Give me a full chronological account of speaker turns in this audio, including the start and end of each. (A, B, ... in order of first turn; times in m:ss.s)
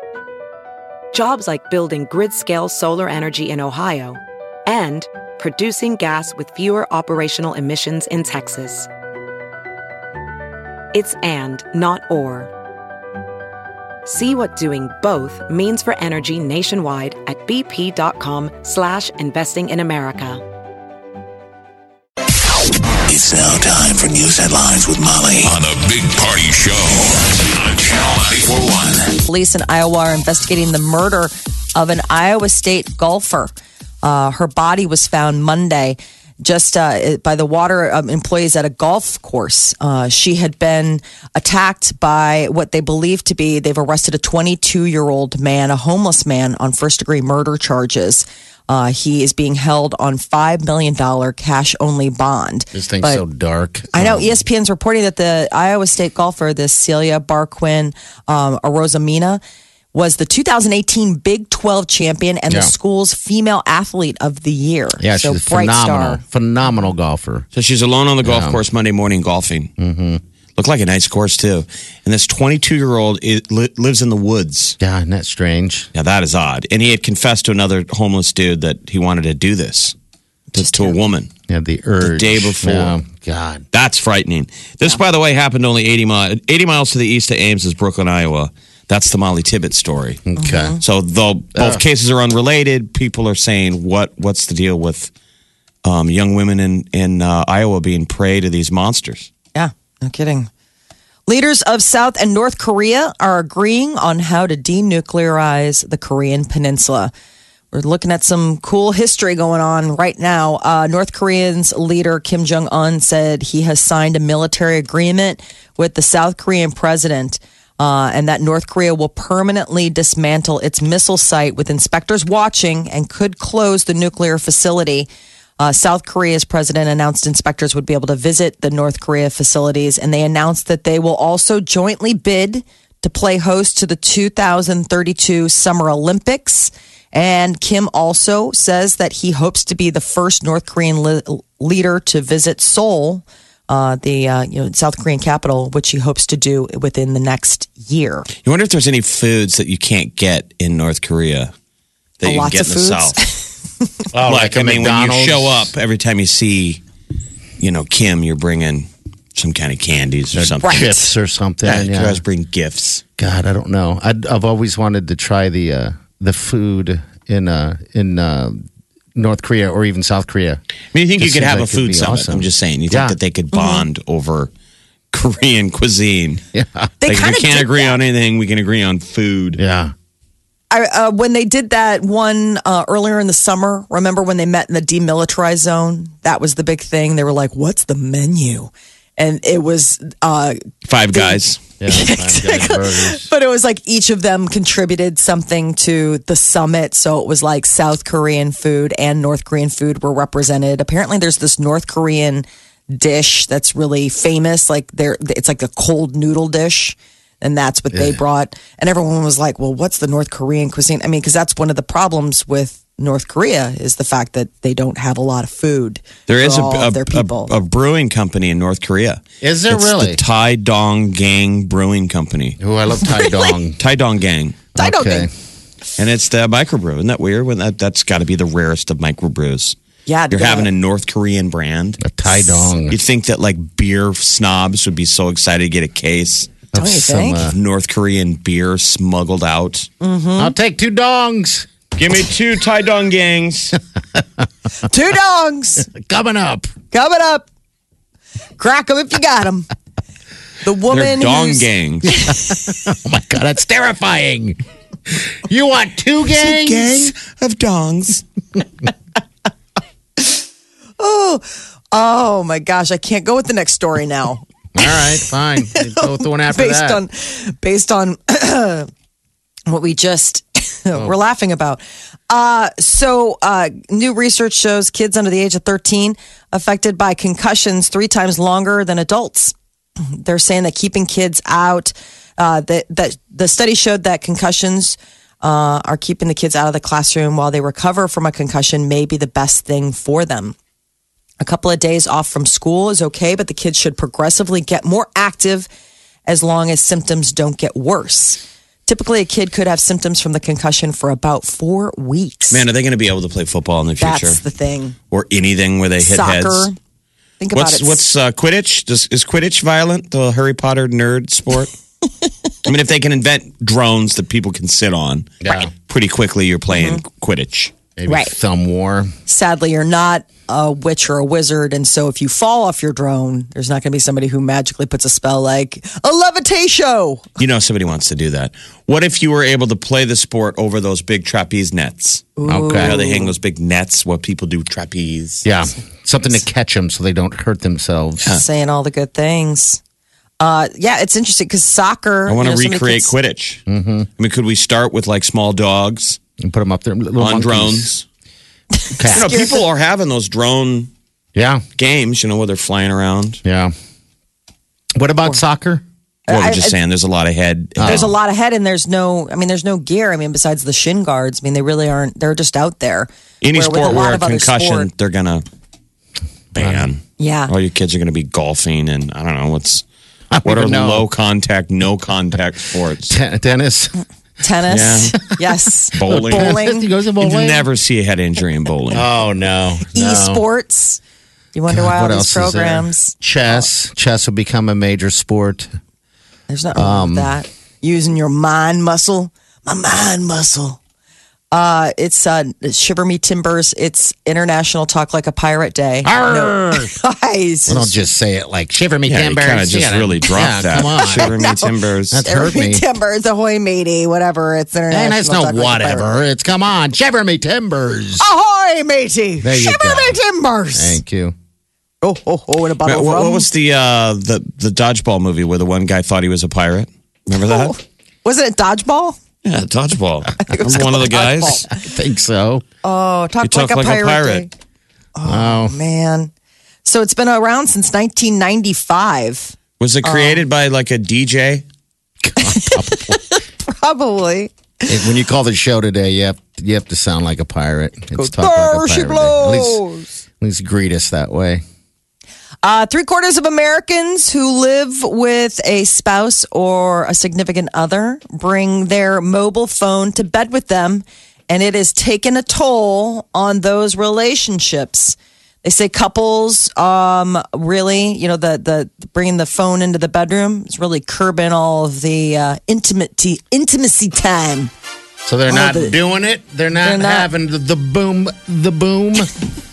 0:01.1-0:08.9 A
0:10.9-0:12.5 A
0:14.1-0:20.4 A
0:23.0-0:29.2 B
0:29.2-0:33.5 C
0:34.0-0:53.2 C
0:52.7-0:54.4 D
0:53.9-0:59.4 C
0:59.9-1:06.2 C
1:05.0-1:07.5 D
1:07.5-1:09.7 E
1:08.2-1:08.6 D
1:09.8-1:10.2 D
1:10.6-1:14.8 E
1:14.8-1:15.9 D
1:16.0-1:20.0 E
1:20.5-1:21.0 C
1:20.6-1:21.3 E
1:21.5-1:23.7 D
1:22.0-1:23.0 E
1:23.7-1:30.2 E
1:30.3-1:30.8 D
1:30.4-1:30.8 C
1:30.8-1:35.1 E
1:31.5-1:31.8 D
1:35.8-1:39.3 E
1:39.6-1:40.5 C
1:41.3-1:47.1 C
1:47.7-2:05.1 C
2:05.6-2:28.3 C
2:28.4-2:31.5 E
2:32.2-2:33.2 E
2:32.2-2:33.4 C
2:34.1-2:35.7 D
2:34.2-2:36.8 E
2:37.6-2:40.9 E
2:40.4-2:42.2 D
2:40.6-2:41.1 C
2:41.6-2:43.0 E
2:43.2-2:50.6 D
2:50.9-2:54.5 E
2:51.2-2:53.2 D
2:53.5-2:53.8 C
2:55.1-2:56.4 E
2:56.5-2:56.9 D
2:57.0-2:57.9 C
2:57.1-2:59.6 E
2:59.6-2:59.9 D
3:00.7-3:10.6 C
3:10.8-3:11.6 E
3:11.1-3:37.5 C
3:11.8-3:13.3 D
3:27.9-3:28.2 D
3:36.3-3:42.6 E
3:39.4-3:40.2 D
3:42.6-3:43.8 D
3:43.8-3:44.6 E
3:44.8-3:45.3 C
3:44.8-3:45.3 D
3:46.0-3:49.8 E
3:50.1-3:50.7 C
3:50.3-3:56.6 E
3:52.0-3:53.0 D
3:56.7-3:57.6 D
3:56.8-3:57.5 C
3:57.5-3:59.9 E
4:00.0-4:00.5 C
4:00.4-4:01.7 D
4:02.0-4:03.8 E
4:04.8-4:05.9 C
4:05.9-4:06.7 D
4:06.9-4:07.5 C
4:08.6-4:09.7 C
4:10.6-4:11.7 C
4:10.9-4:12.1 E
4:12.1-4:14.6 D
4:15.1-4:17.1 D
4:16.4-4:18.2 E
4:21.0-4:25.0 C
4:24.8-4:27.0 D
4:25.6-4:28.9 C
4:29.7-4:39.6 C
4:40.1-4:50.6 C
4:51.4-4:55.7 C
4:56.3-5:02.6 C
5:02.5-5:04.4 E
5:04.0-5:05.0 C
5:05.1-5:06.7 E
5:06.0-5:06.8 C
5:07.4-5:08.0 C
5:07.5-5:11.7 E
5:12.6-5:17.7 E
5:15.4-5:15.7 D
5:16.7-5:17.0 C
5:18.0-5:19.1 D
5:18.1-5:18.3 C
5:19.3-5:27.3 C
5:27.4-5:35.4 E
5:32.4-5:33.3 C
5:32.5-5:33.0 D
5:35.4-5:38.3 D
5:38.3-5:39.8 C
5:40.4-5:43.1 C
5:42.3-5:43.6 E
5:43.7-5:44.1 D
5:44.2-5:46.2 E
5:46.4-5:47.9 D
5:47.2-5:48.0 E
5:48.8-5:49.6 C
5:49.0-5:49.4 D
5:49.1-5:50.9 E
5:51.4-5:51.6 D
5:51.8-5:53.4 E
5:53.4-5:53.7 D
5:55.0-5:55.8 D
5:56.3-5:56.8 C
5:56.3-5:58.1 E
5:57.8-5:58.1 D
5:57.8-6:04.9 C
6:03.4-6:05.4 E
6:06.5-6:09.8 E
6:06.6-6:06.8 D
6:07.2-6:07.5 C
6:10.3-6:11.1 D
6:10.4-6:13.2 E
6:13.1-6:14.0 D
6:14.4-6:16.9 C
6:14.7-6:15.2 E
6:15.9-6:16.6 E
6:15.9-6:17.7 D
6:17.2-6:19.1 E
6:18.9-6:20.4 D
6:19.9-6:21.0 C
6:21.5-6:23.6 C
6:21.7-6:25.8 D
6:26.5-6:30.8 C
6:26.8-6:27.4 D
6:31.5-6:37.9 C
6:36.0-6:36.9 D
6:37.7-6:41.3 D
6:39.1-6:42.2 E
6:41.0-6:46.1 C
6:42.1-6:42.8 D
6:44.9-6:48.3 D
6:48.2-6:51.0 C
6:49.4-6:50.2 D
6:50.8-6:51.4 D
6:52.0-6:53.5 C
6:52.8-6:57.7 E
6:57.4-6:59.2 C
6:59.4-7:01.6 E
7:00.4-7:01.8 C
7:01.8-7:02.6 D
7:02.8-7:04.5 C
7:03.4-7:04.5 E
7:05.2-7:06.3 C
7:05.2-7:05.8 D
7:06.8-7:10.4 C
7:09.8-7:11.6 E
7:12.2-7:13.2 D
7:12.4-7:14.5 C
7:14.9-7:19.8 D
7:18.1-7:20.1 C
7:20.4-7:21.6 D
7:22.6-7:44.7 C
7:45.2-7:49.3 D
7:45.5-7:46.0 C
7:46.8-7:47.3 C